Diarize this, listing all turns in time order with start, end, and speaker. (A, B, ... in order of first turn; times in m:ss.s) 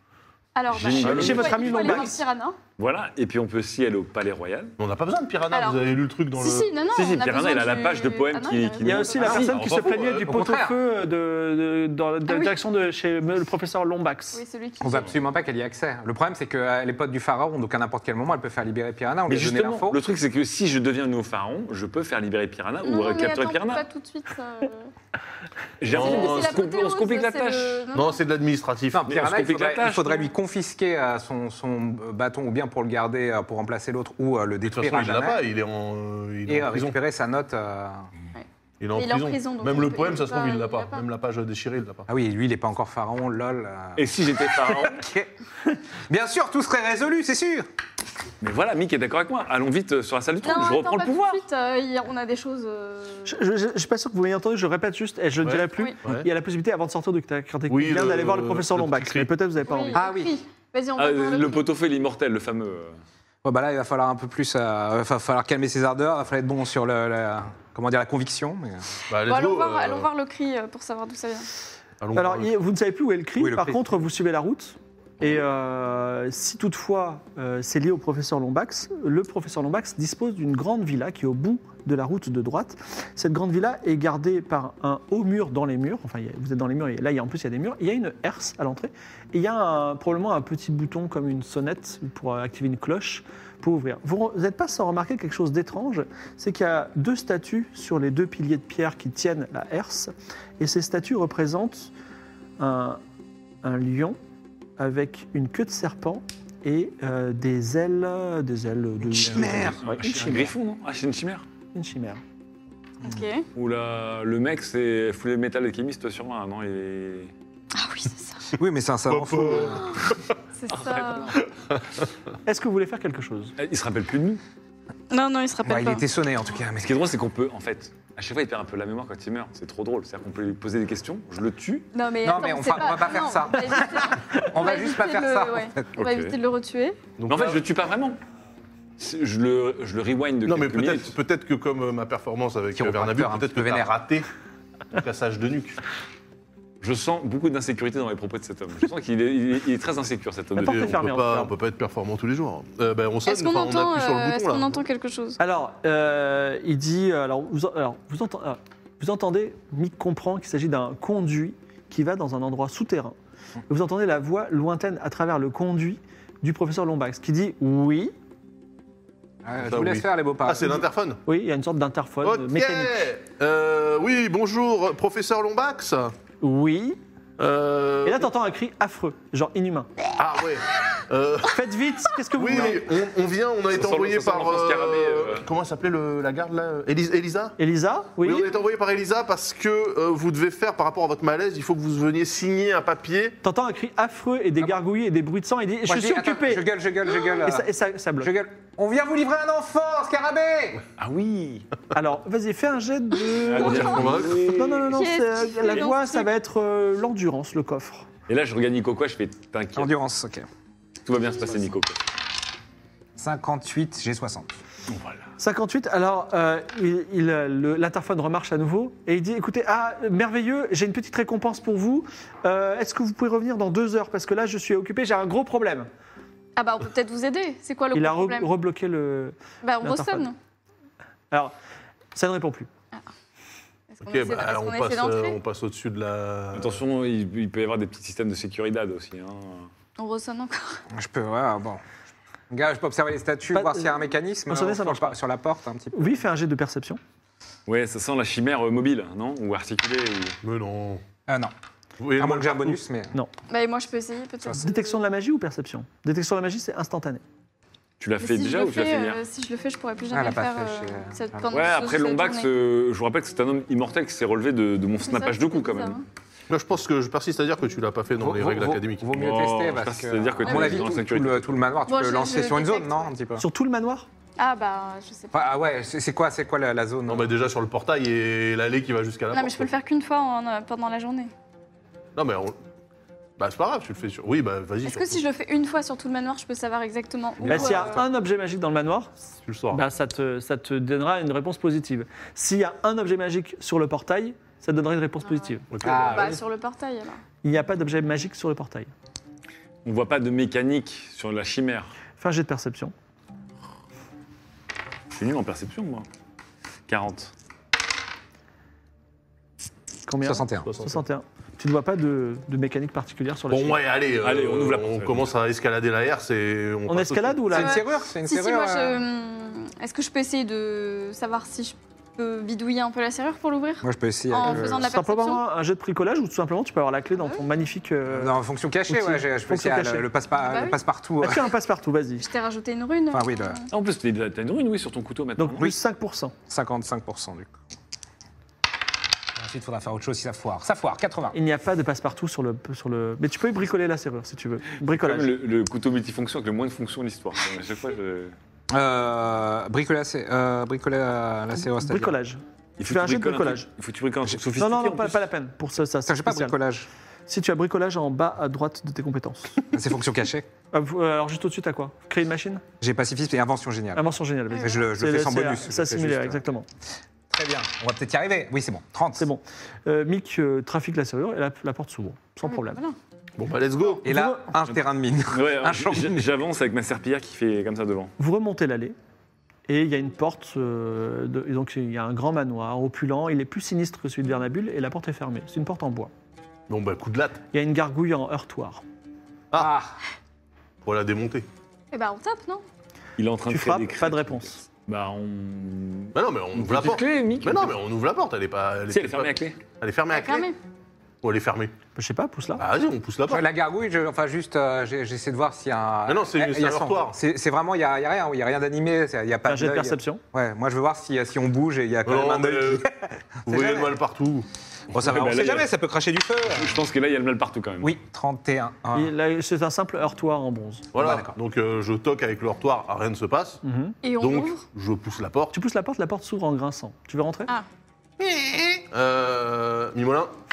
0:00.5-0:02.6 A
0:00.7-0:02.1 B
0:01.0-0:02.1 C
0:02.8-0:04.7 B
0:04.8-0:06.7 D
0:05.5-0:05.8 A
0:06.4-0:09.5 A
0:06.9-0:09.5 B
0:08.8-0:14.4 C
0:09.3-0:10.4 D
0:10.3-0:10.8 E
0:12.3-0:12.6 A
0:14.3-0:15.2 A
0:14.8-0:20.0 E
0:19.3-0:23.8 B
0:22.8-0:24.9 A
0:25.8-0:27.8 B
0:25.9-0:26.6 D
0:25.9-0:28.2 A
0:27.9-0:29.0 D
0:28.9-0:35.4 E
0:29.1-0:30.3 B
0:34.6-0:37.0 D
0:36.5-0:38.1 E
0:38.3-0:41.0 A
0:38.8-0:42.1 D
0:42.1-0:45.3 E
0:44.0-0:45.0 B
0:46.1-0:47.6 E
0:48.4-0:51.4 B
0:50.4-0:53.4 A
0:53.2-1:00.0 C
0:55.4-0:56.3 D
0:57.7-0:59.3 D
0:59.6-1:01.7 A
0:59.9-1:00.3 E
1:01.0-1:03.0 B
1:03.4-1:08.8 E
1:09.1-1:10.1 D
1:09.3-1:11.5 A
1:12.0-1:12.5 D
1:12.1-1:41.9 C
1:13.4-1:13.8 E
1:42.6-1:43.0 C
1:43.6-1:44.2 C
1:44.8-1:50.5 C
1:49.1-1:49.8 E
1:49.2-1:51.4 B
1:51.7-1:52.2 C
1:53.0-1:53.5 A
1:53.5-1:57.3 B
1:57.7-1:58.5 A
1:58.6-2:00.0 E
1:59.1-2:00.2 D
2:00.6-2:01.4 A
2:00.7-2:01.4 B
2:02.4-2:03.5 C
2:03.6-2:04.4 B
2:05.1-2:06.0 A
2:05.6-2:07.0 E
2:06.8-2:11.9 B
2:11.9-2:17.1 A
2:12.2-2:15.9 E
2:16.0-2:16.4 B
2:17.2-2:17.6 D
2:17.3-2:18.2 B
2:19.0-2:21.1 B
2:20.4-2:24.3 D
2:22.8-2:23.9 E
2:24.9-2:25.8 D
2:26.8-2:30.9 B
2:30.6-2:31.5 C
2:30.6-2:34.8 D
2:33.2-2:35.4 A
2:35.4-2:43.1 C
2:43.7-2:48.1 C
2:49.4-2:50.8 E
2:49.6-2:51.2 D
2:51.2-2:52.9 C
2:52.2-2:56.1 D
2:56.4-2:57.0 C
2:57.4-2:58.3 D
2:58.0-2:59.9 C
3:00.2-3:01.6 D
3:01.5-3:02.9 C
3:02.3-3:07.6 D
3:03.7-3:05.4 B
3:07.6-3:08.5 C
3:08.2-3:13.4 D
3:13.4-3:16.6 C
3:15.9-3:20.8 E
3:17.4-3:18.3 C
3:21.0-3:21.7 B
3:21.9-3:28.0 C
3:23.4-3:24.8 B
3:23.6-3:24.6 D
3:24.8-3:26.3 A
3:28.3-3:29.9 B
3:29.8-3:30.5 E
3:31.0-3:32.0 B
3:33.2-3:34.6 E
3:34.9-3:35.2 B
3:35.4-3:45.9 C
3:46.6-3:48.5 A
3:47.9-3:50.3 C
3:49.6-3:50.3 A
3:52.1-3:52.7 C
3:53.9-3:55.4 A
3:54.0-3:56.8 D
3:56.6-3:59.7 B
4:00.0-4:00.8 A
4:00.9-4:01.8 E
4:02.5-4:06.2 E
4:03.5-4:04.0 C
4:04.5-4:05.2 C
4:05.9-4:07.0 C
4:07.6-4:10.4 B
4:10.4-4:11.0 D
4:11.3-4:11.5 E
4:12.0-4:12.8 D
4:12.2-4:13.1 E
4:13.5-4:15.0 A
4:14.6-4:17.2 C
4:18.0-4:19.2 B
4:18.2-4:22.5 A
4:20.1-4:21.8 E
4:21.5-4:26.0 B
4:25.0-4:26.0 A
4:26.5-4:29.1 D
4:28.2-4:33.4 E
4:29.1-4:31.6 B
4:30.4-4:30.9 A
4:31.8-4:33.1 A
4:33.4-4:34.1 C
4:34.4-4:35.5 A
4:35.3-4:37.3 E
4:37.1-4:39.7 D
4:39.3-4:41.3 A
4:42.1-4:42.6 D
4:43.4-4:45.2 D
4:44.8-4:48.0 A
4:47.4-4:48.0 D
4:47.5-4:49.2 C
4:49.4-4:49.8 D
4:49.7-4:55.6 C
4:55.7-4:56.4 D
4:55.8-4:56.3 E
4:55.8-4:57.2 A
4:57.4-4:58.9 C
4:59.8-5:01.9 B
5:02.2-5:02.9 C
5:05.1-5:06.0 B
5:06.9-5:07.3 B
5:10.1-5:13.8 C
5:10.2-5:10.7 E
5:10.6-5:11.0 D
5:13.5-5:17.5 D
5:14.2-5:15.3 B
5:16.9-5:17.8 C
5:17.5-5:19.0 E
5:17.5-5:25.4 A
5:23.8-5:24.9 E
5:24.4-5:28.4 C
5:28.1-5:31.5 E
5:28.9-5:30.1 C
5:30.4-5:30.8 A
5:31.2-5:32.3 C
5:32.2-5:33.7 A
5:33.1-5:33.6 E
5:33.7-5:35.6 B
5:35.4-5:36.3 C
5:36.5-5:37.5 E
5:39.4-5:41.4 E
5:41.3-5:45.3 C
5:44.9-5:48.3 B
5:48.7-5:52.1 E
5:51.6-5:53.7 C
5:52.8-5:55.2 B
5:54.6-5:56.6 C
5:56.0-5:56.9 E
5:57.3-5:59.6 C
5:59.7-6:00.5 E
6:00.7-6:02.6 C
6:02.8-6:06.4 E
6:03.9-6:06.6 C
6:07.3-6:09.3 E
6:09.2-6:12.8 C
6:12.5-6:13.0 A
6:13.4-6:14.0 D
6:14.0-6:14.5 C
6:14.0-6:16.2 E
6:15.3-6:18.1 B
6:18.2-6:18.9 C
6:19.7-6:26.1 C
6:26.7-6:27.4 D
6:27.5-6:28.8 C
6:29.5-6:29.9 E
6:30.8-6:31.4 D
6:31.9-6:32.6 A
6:33.2-6:37.7 B
6:33.5-6:34.6 C
6:36.1-6:40.5 D
6:38.9-6:39.6 B
6:40.1-6:40.6 A
6:41.2-6:41.7 D
6:42.0-6:42.6 C
6:42.6-6:43.4 D
6:43.3-6:53.9 E
6:46.1-6:47.2 D
6:49.5-6:50.2 C
6:52.0-6:52.8 D
6:53.5-6:54.5 D
6:54.9-6:56.8 E
6:54.9-6:55.7 B
6:56.4-6:57.9 B
6:57.8-6:59.1 E
6:58.9-7:00.9 C
7:00.9-7:03.6 D
7:01.0-7:01.3 E
7:03.6-7:04.0 C
7:04.0-7:04.6 A
7:04.2-7:05.5 D
7:05.5-7:07.5 C
7:08.2-7:08.8 E
7:08.9-7:10.3 D